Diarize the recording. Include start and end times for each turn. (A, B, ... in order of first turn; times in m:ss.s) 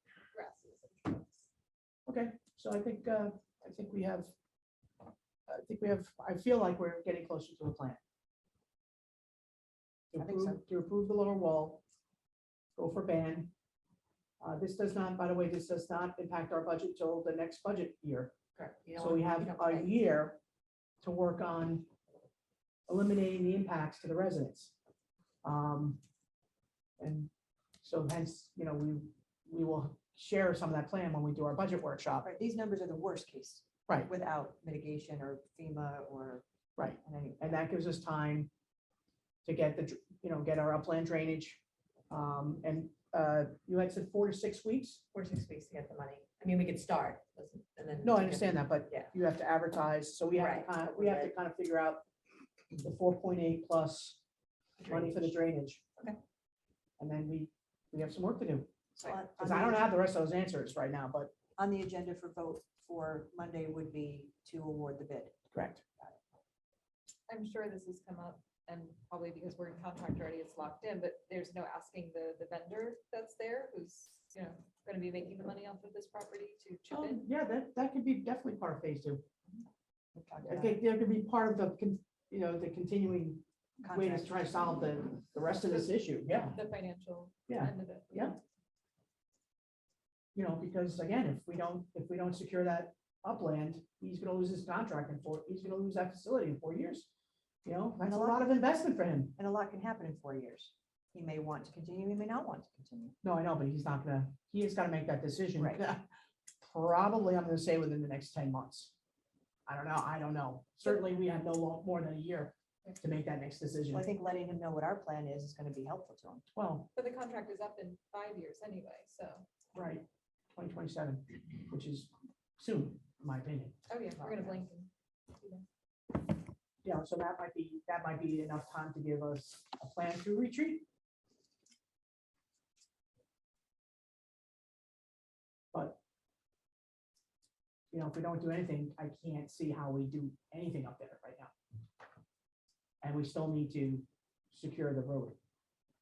0:00.3-0:01.4 A
0:02.1-0:04.3 B
0:05.5-0:08.0 B
0:10.1-0:11.8 B
0:10.2-0:10.6 C
0:12.8-0:13.5 B
0:14.4-0:18.3 B
0:18.6-0:19.9 C
0:19.0-0:20.4 B
0:21.0-0:21.9 B
0:22.9-0:24.7 B
0:25.4-0:26.0 B
0:27.0-0:27.3 B
0:27.8-0:32.3 B
0:32.2-0:36.4 C
0:36.8-0:38.5 B
0:37.0-0:37.7 C
0:39.4-0:45.0 B
0:45.1-0:49.1 C
0:48.0-0:52.0 B
0:50.3-0:51.3 C
0:52.8-0:54.2 B
0:54.8-0:55.3 C
0:54.8-0:55.8 B
0:57.0-0:58.7 B
0:59.0-0:59.9 C
0:59.3-1:01.3 B
1:01.6-1:05.4 C
1:05.5-1:05.8 B
1:07.3-1:17.3 A
1:16.9-1:19.2 B
1:20.1-1:20.8 C
1:20.4-1:26.6 B
1:23.8-1:24.6 C
1:26.4-1:28.4 A
1:27.5-1:28.4 B
1:30.3-1:37.1 B
1:37.6-1:39.3 B
1:38.0-1:38.5 C
1:39.3-1:43.1 C
1:43.2-1:46.0 B
1:45.6-1:45.8 C
1:46.6-1:48.9 B
1:49.6-1:54.1 B
1:53.9-1:56.4 C
1:56.5-1:56.9 B
1:56.9-1:59.5 A
1:59.7-2:03.8 B
2:03.9-2:05.6 A
2:04.2-2:04.7 C
2:06.8-2:10.8 B
2:15.7-2:16.0 B
2:17.9-2:21.5 B
2:23.0-2:25.4 B